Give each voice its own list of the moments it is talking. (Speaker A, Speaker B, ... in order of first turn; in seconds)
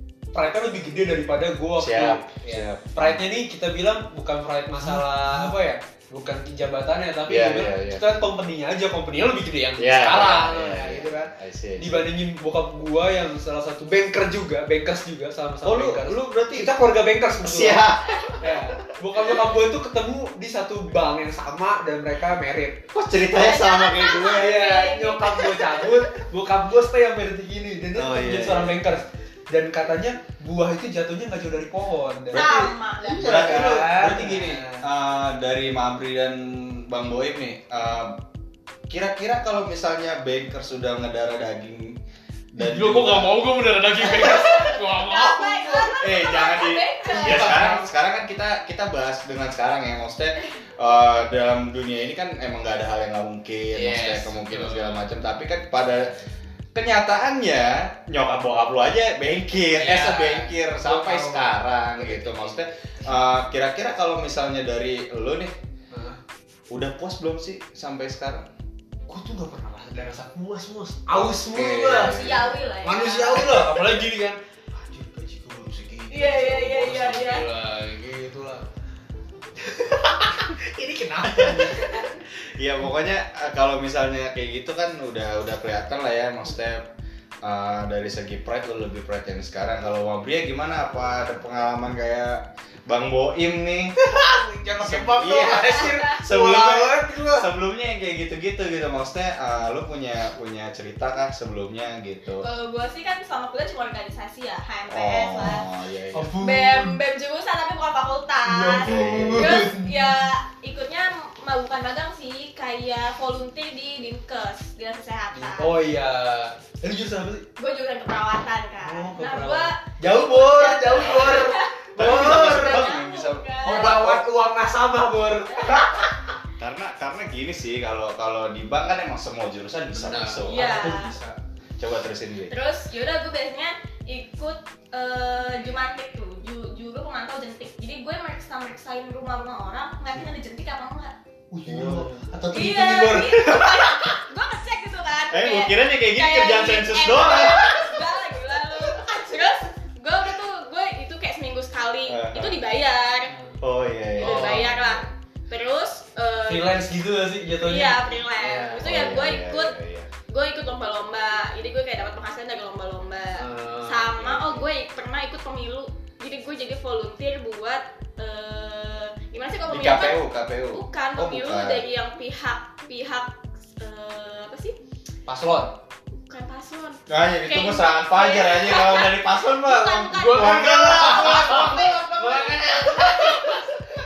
Speaker A: 0.3-22.8, 24.3-34.9, 42.6-46.0, 47.1-47.9, 53.7-55.1, 59.8-63.2, 65.9-66.2, 69.1-78.6, 79.6-82.1, 94.0-97.5, 106.1-107.0, 108.5-110.1, 115.3-117.5, 118.8-123.0, 123.6-126.3, 129.9-131.4, 141.5-144.1, 147.6-148.0, 148.7-149.6, 154.2-154.7, 156.5-158.9, 163.4-164.5, 175.3-175.7, 180.1-183.7
Speaker B: 1.8-3.2, 4.8-5.5, 7.3-8.0, 9.8-12.0, 15.6-16.7, 17.4-18.2, 22.9-24.7, 27.9-28.8, 32.3-38.2, 38.9-42.0, 42.5-43.4, 44.0-44.3, 46.0-56.1, 56.7-65.5, 66.7-68.5, 71.1-72.5, 81.2-81.8, 82.6-86.9, 87.4-93.9, 94.8-102.5, 104.9-106.3, 108.8-109.6, 121.0-124.2, 126.6-130.9, 131.8-132.5, 141.7-142.3, 145.3-147.8, 152.1-152.6, 153.6-155.1, 158.8-160.1, 169.7-171.8, 177.1-183.6
Speaker C: 23.3-26.0, 32.3-33.6, 44.2-47.6, 71.7-73.5, 76.1-77.5, 102.4-105.7, 106.4-115.7, 117.6-124.0, 130.5-131.1, 132.5-141.2, 142.5-153.3, 154.2-156.8, 157.6-159.8, 160.3-170.2, 170.7-174.8, 176.1-182.1, 182.9-183.6